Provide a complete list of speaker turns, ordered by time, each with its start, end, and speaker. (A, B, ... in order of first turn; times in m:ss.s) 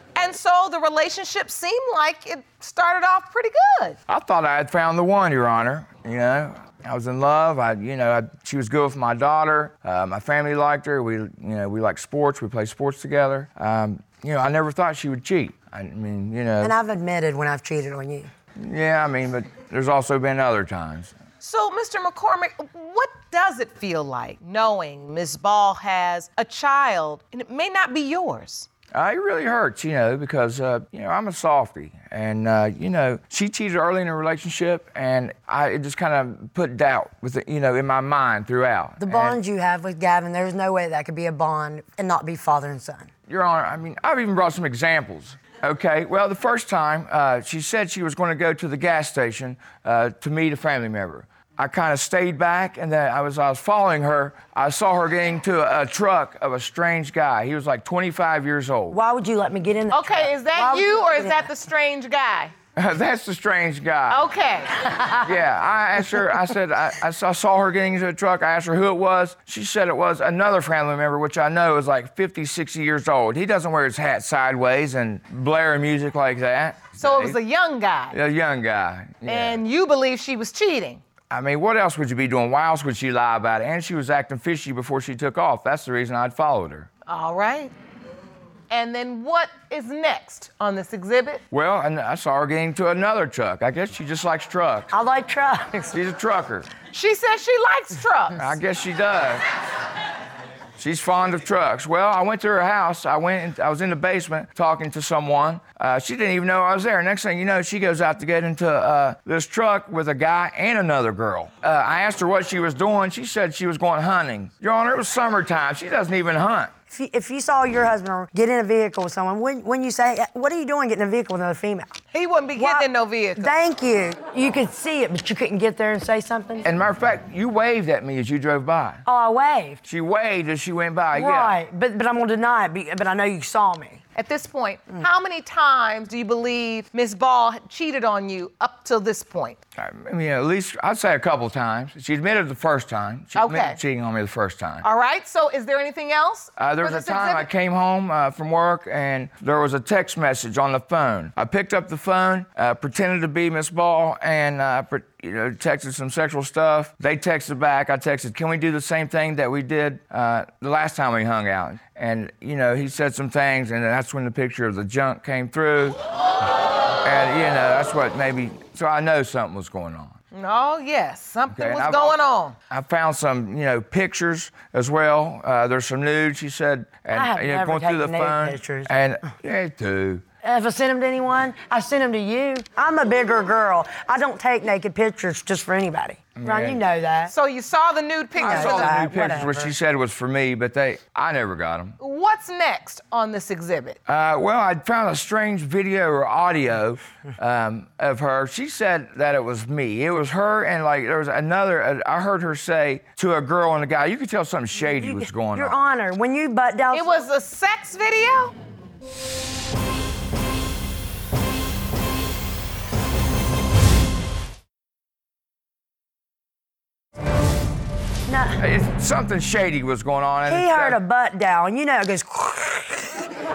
0:00.2-0:04.0 A
0:04.1-0:16.8 B
0:16.6-0:18.3 C
0:18.6-0:21.1 B
0:21.4-0:28.7 A
0:28.9-0:39.4 B
0:39.0-0:43.1 C
0:43.3-0:59.0 B
0:58.9-1:01.5 C
0:59.9-1:02.5 A
1:02.8-1:04.2 B
1:04.1-1:04.9 A
1:04.9-1:05.3 C
1:05.2-1:17.4 B
1:17.0-1:18.2 A
1:18.1-1:19.6 B
1:19.3-1:21.0 A
1:21.3-1:26.9 B
1:27.1-1:27.7 A
1:28.7-1:31.4 A
1:31.5-1:34.9 B
1:34.9-1:36.0 C
1:35.9-1:36.7 B
1:36.9-1:38.5 A
1:38.4-1:39.4 B
1:40.8-1:56.7 B
1:56.9-2:02.0 C
2:02.1-2:03.6 A
2:02.6-2:06.7 C
2:06.6-2:09.0 B
2:09.1-2:09.8 C
2:09.8-2:11.6 B
2:11.1-2:14.0 C
2:14.2-2:19.6 A
2:19.8-2:24.8 B
2:23.4-2:23.8 A
2:24.8-2:27.5 A
2:26.6-2:46.0 B
2:47.0-2:50.2 B
2:50.3-2:52.6 A
2:51.5-2:52.2 B
2:52.7-3:00.2 B
2:57.1-2:58.9 C
3:00.4-3:07.3 C
3:06.4-3:06.8 B
3:07.3-3:09.0 A
3:08.4-3:09.7 C
3:08.4-3:12.0 B
3:12.0-3:14.0 A
3:14.1-3:25.8 B
3:24.9-3:27.1 C
3:26.9-3:28.5 A
3:38.3-3:38.6 C
3:38.6-3:41.0 B
3:40.5-3:43.2 C